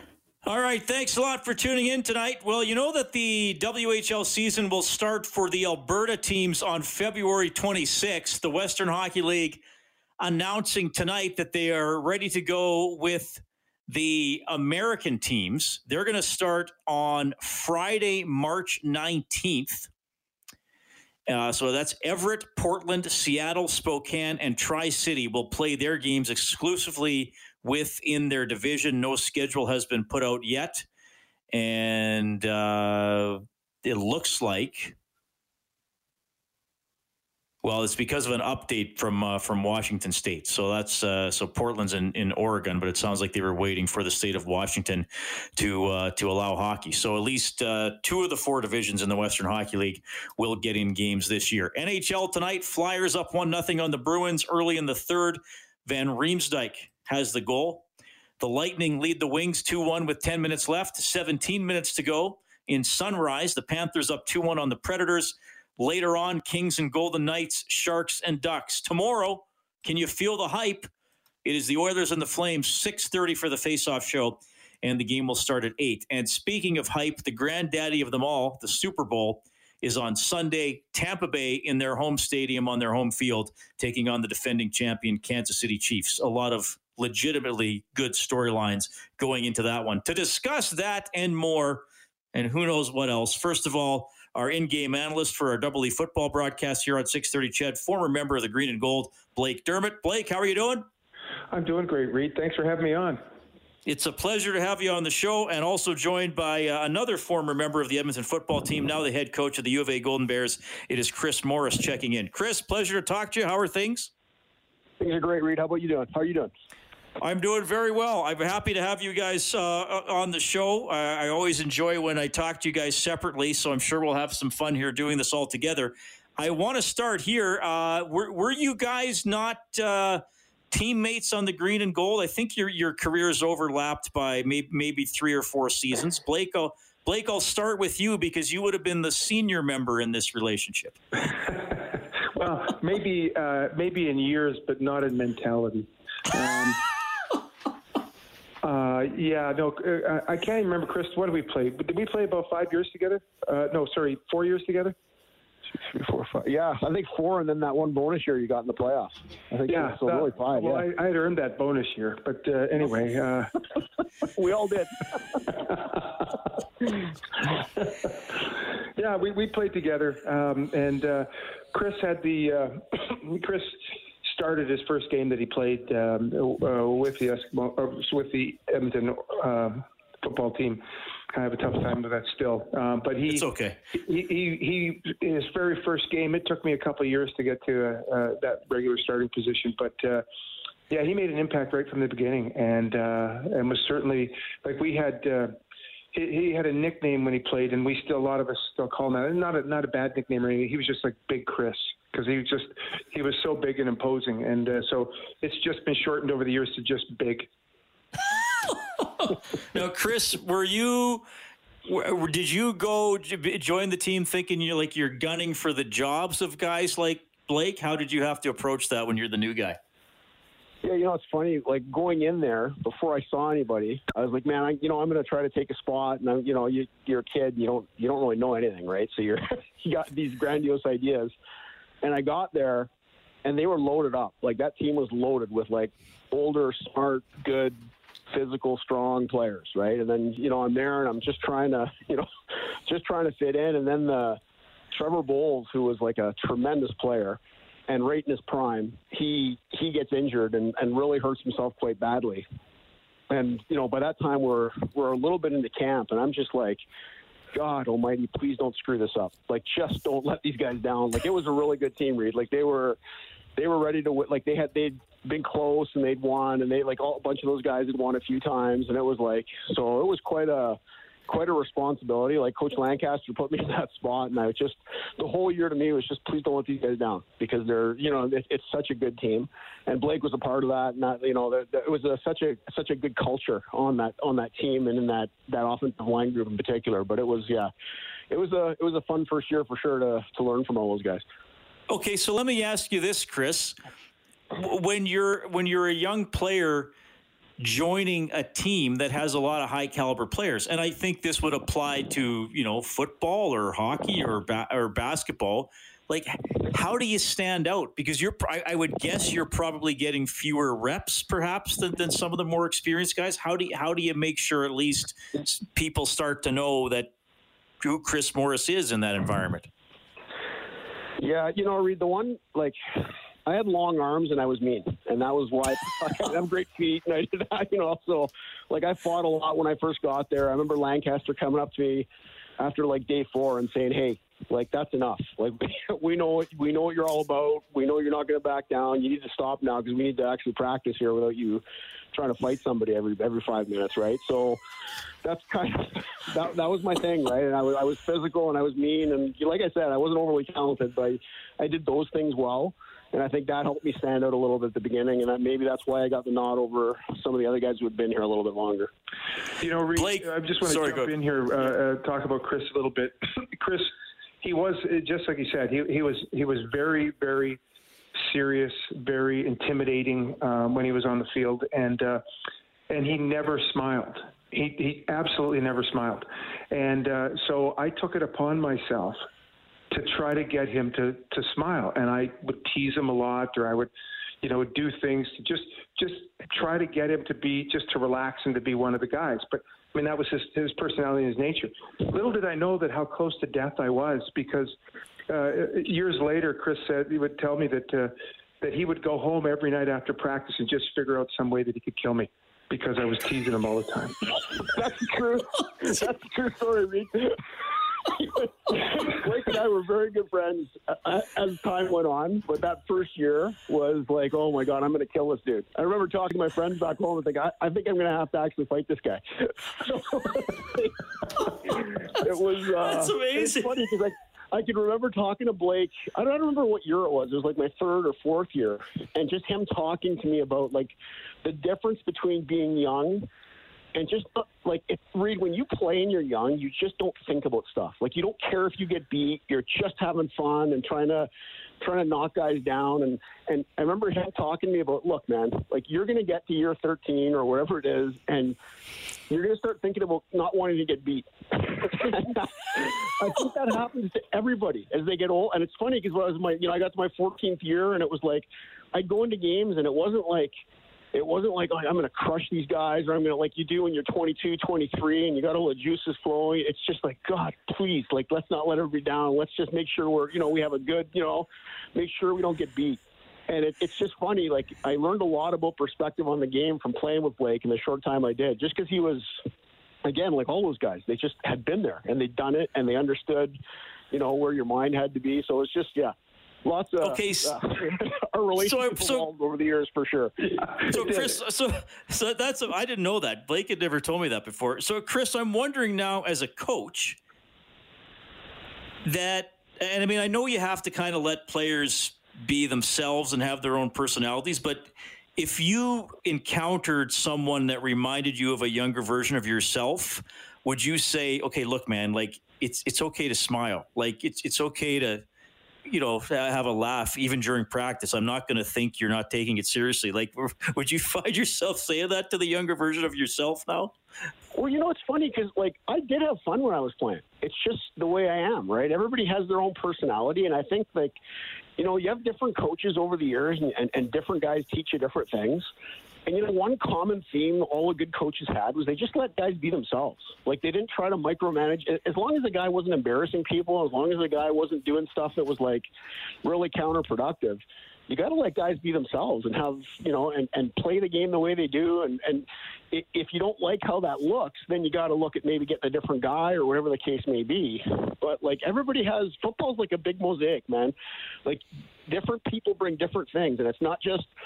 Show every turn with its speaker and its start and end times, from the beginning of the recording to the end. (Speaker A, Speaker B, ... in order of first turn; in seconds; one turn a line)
Speaker A: 0.4-9.6
Speaker A: 10.2-19.9
Speaker A: 21.3-30.9
Speaker A: 31.5-35.0
Speaker A: 37.6-57.9
Speaker A: 58.4-70.9
Speaker A: 71.4-100.9
Speaker B: 101.5-103.2
Speaker A: 103.8-114.1
Speaker C: 115.0-116.5
Speaker A: 117.2-141.0
Speaker B: 142.3-146.8
Speaker B: 148.6-154.9
Speaker C: 155.8-160.8
Speaker B: 159.7-163.5
Speaker C: 164.3-165.5
Speaker B: 167.5-190.2
Speaker A: 183.3-183.8
Speaker B: 190.9-195.6
Speaker B: 196.1-207.5
Speaker A: 208.3-211.2
Speaker A: 211.8-219.8
Speaker C: 220.8-231.3
Speaker C: 232.0-232.9
Speaker C: 233.4-237.8
Speaker C: 238.3-242.3
Speaker C: 242.9-244.4
Speaker C: 244.9-252.4
Speaker C: 253.3-256.8
Speaker C: 257.5-263.0
Speaker C: 263.6-287.7
Speaker C: 288.3-291.2
Speaker A: 291.9-293.8
Speaker A: 294.5-296.9
Speaker A: 297.6-317.1
Speaker A: 317.8-319.7
Speaker C: 321.2-322.8
Speaker C: 323.4-332.1
Speaker C: 332.6-341.6
Speaker C: 342.1-344.6
Speaker C: 345.2-358.9
Speaker B: 359.6-367.6
Speaker A: 359.9-361.1
Speaker B: 368.1-372.2
Speaker B: 372.9-379.2
Speaker B: 379.9-383.9
Speaker B: 384.4-394.7
Speaker B: 395.3-404.2
Speaker C: 404.6-407.4
Speaker C: 408.0-420.9
Speaker C: 421.7-433.3
Speaker A: 422.8-423.8
Speaker C: 433.9-441.3
Speaker C: 441.8-448.6
Speaker C: 449.3-460.5
Speaker C: 461.1-479.4
Speaker C: 480.0-483.6
Speaker C: 484.1-486.1
Speaker C: 486.6-491.0
Speaker A: 487.0-487.6
Speaker A: 488.6-489.2
Speaker A: 490.9-497.2
Speaker A: 499.0-515.2
Speaker A: 515.9-524.0
Speaker C: 524.5-531.1
Speaker C: 531.8-535.7
Speaker C: 536.2-545.9
Speaker C: 546.4-564.3